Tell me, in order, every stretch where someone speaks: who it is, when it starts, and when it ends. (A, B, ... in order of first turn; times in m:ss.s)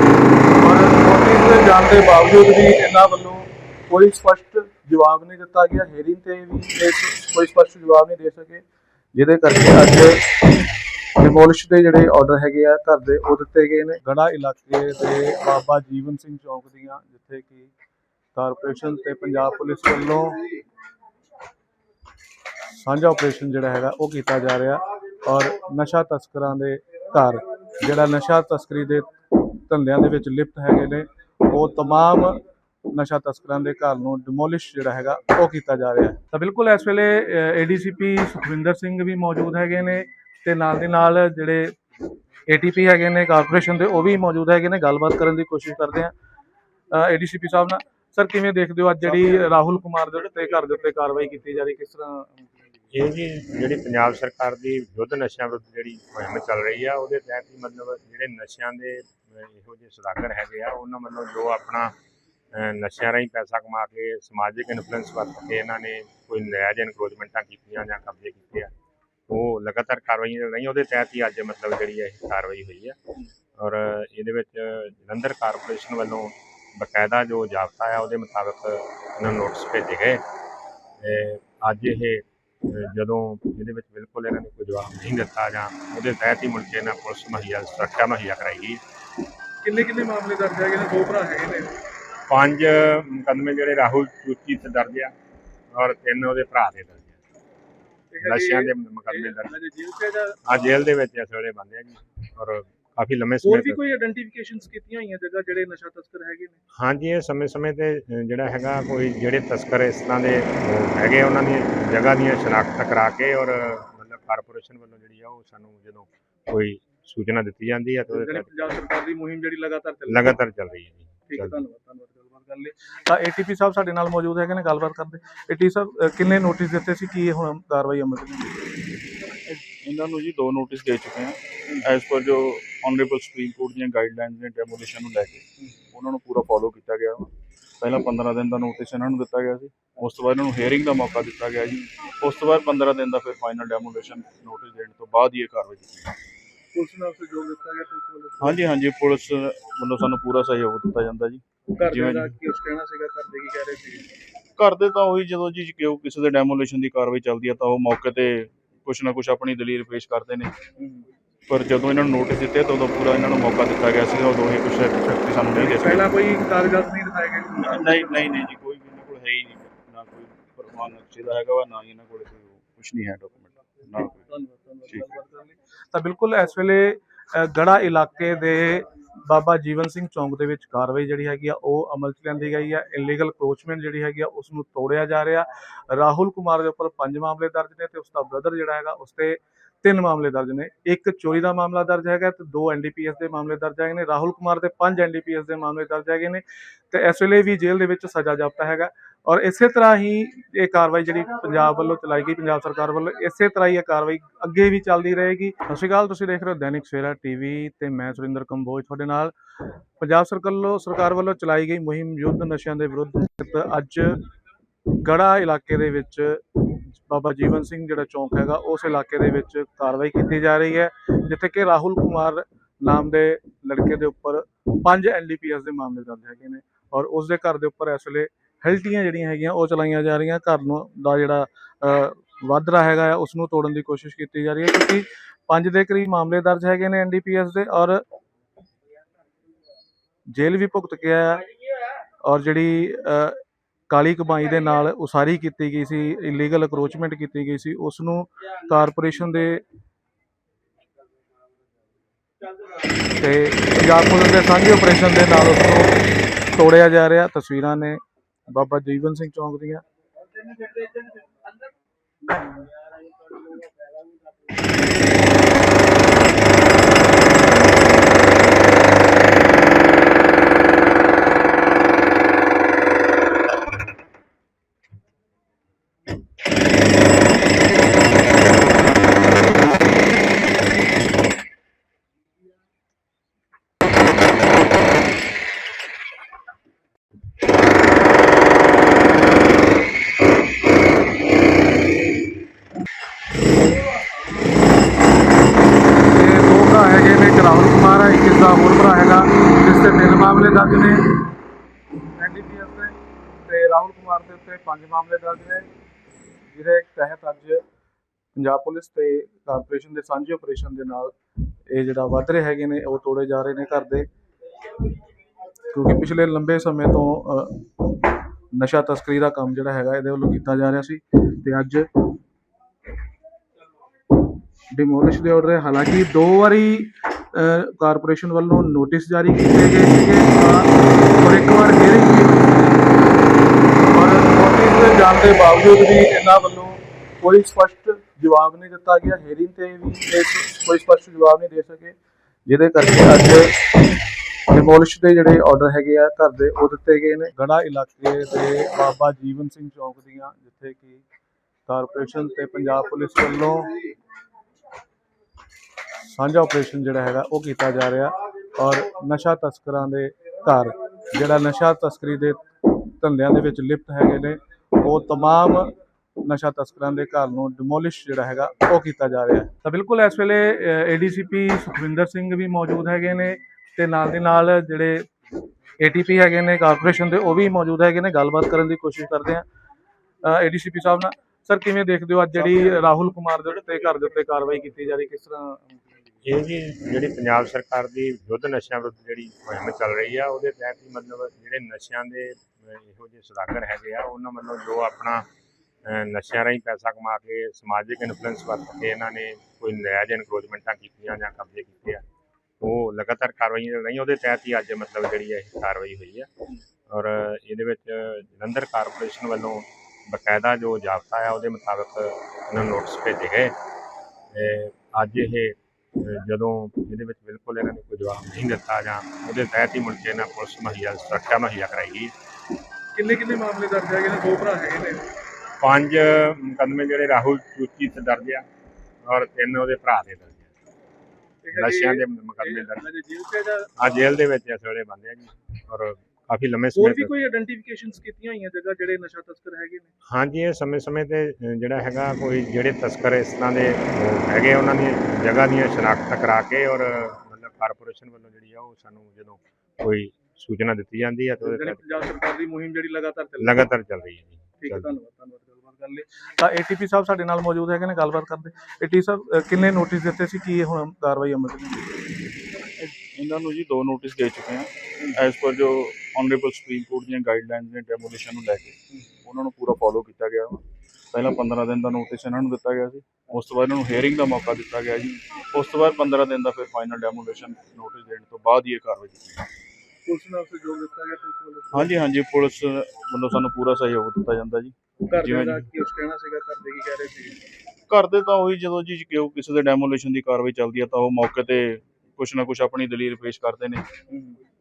0:00.5-0:08.6 A
0:09.1-0:10.2 A
0:11.2-0:17.7 A
0:18.3-0:20.6 A
0:22.7-0:41.7 A
0:42.5-0:46.1 A
0:46.9-0:52.4 A
0:50.3-0:51.1 B
0:52.9-1:01.9 C
1:02.5-1:08.7 C
1:09.3-1:12.9 C
1:13.6-1:20.2 C
1:21.0-1:28.8 C
1:29.6-1:31.8 A
1:32.3-1:35.1 C
1:35.7-1:37.2 C
1:38.1-1:40.4 A
1:38.2-1:39.6 C
1:40.5-1:43.8 C
1:43.4-1:46.6 A
1:46.7-1:58.8 C
1:58.1-2:00.3 A
2:00.1-2:01.6 C
2:01.3-2:08.7 A
2:09.4-2:26.1 B
2:26.7-2:28.6 A
2:28.4-2:32.4 B
2:31.7-2:34.1 A
2:34.6-2:40.5 B
2:40.8-2:41.0 A
2:41.5-2:46.1 B
2:45.5-2:48.2 A
2:47.6-2:54.2 B
2:54.0-3:29.3 A
3:30.0-3:34.2 A
3:34.9-3:58.0 A
4:00.3-4:01.4 A
4:02.2-4:03.4 A
4:03.9-4:09.6 A
4:13.2-4:16.0 A
4:16.5-4:19.8 A
4:56.1-5:01.0 A
5:02.2-5:05.7 A
5:06.5-5:07.6 A
5:08.4-5:11.1 A
5:11.7-5:14.1 A
5:15.7-5:21.8 A
5:24.7-5:32.5 A
5:33.4-5:42.0 A
5:42.5-5:43.5 A
5:44.5-5:51.0 A
5:51.7-5:53.9 A
5:56.0-6:15.0 A
6:15.8-6:19.4 A
6:20.2-6:25.8 A
6:22.5-6:22.9 B
6:23.5-6:24.3 B
6:26.2-6:35.3 C
6:35.8-6:42.0 C
6:42.6-6:46.3 C
6:46.9-6:53.6 C
6:54.3-7:02.1 C
7:02.9-7:05.0 A
7:05.6-7:08.4 C
7:09.0-7:10.5 C
7:11.4-7:14.1 A
7:11.5-7:12.9 C
7:13.8-7:17.1 C
7:16.7-7:19.9 A
7:20.1-7:32.1 C
7:31.4-7:33.6 A
7:33.4-7:34.9 C
7:34.6-7:42.0 A
7:42.8-7:59.5 B
8:00.1-8:02.0 A
8:01.7-8:05.7 B
8:05.0-8:07.4 A
8:07.9-8:13.8 B
8:14.1-8:14.4 A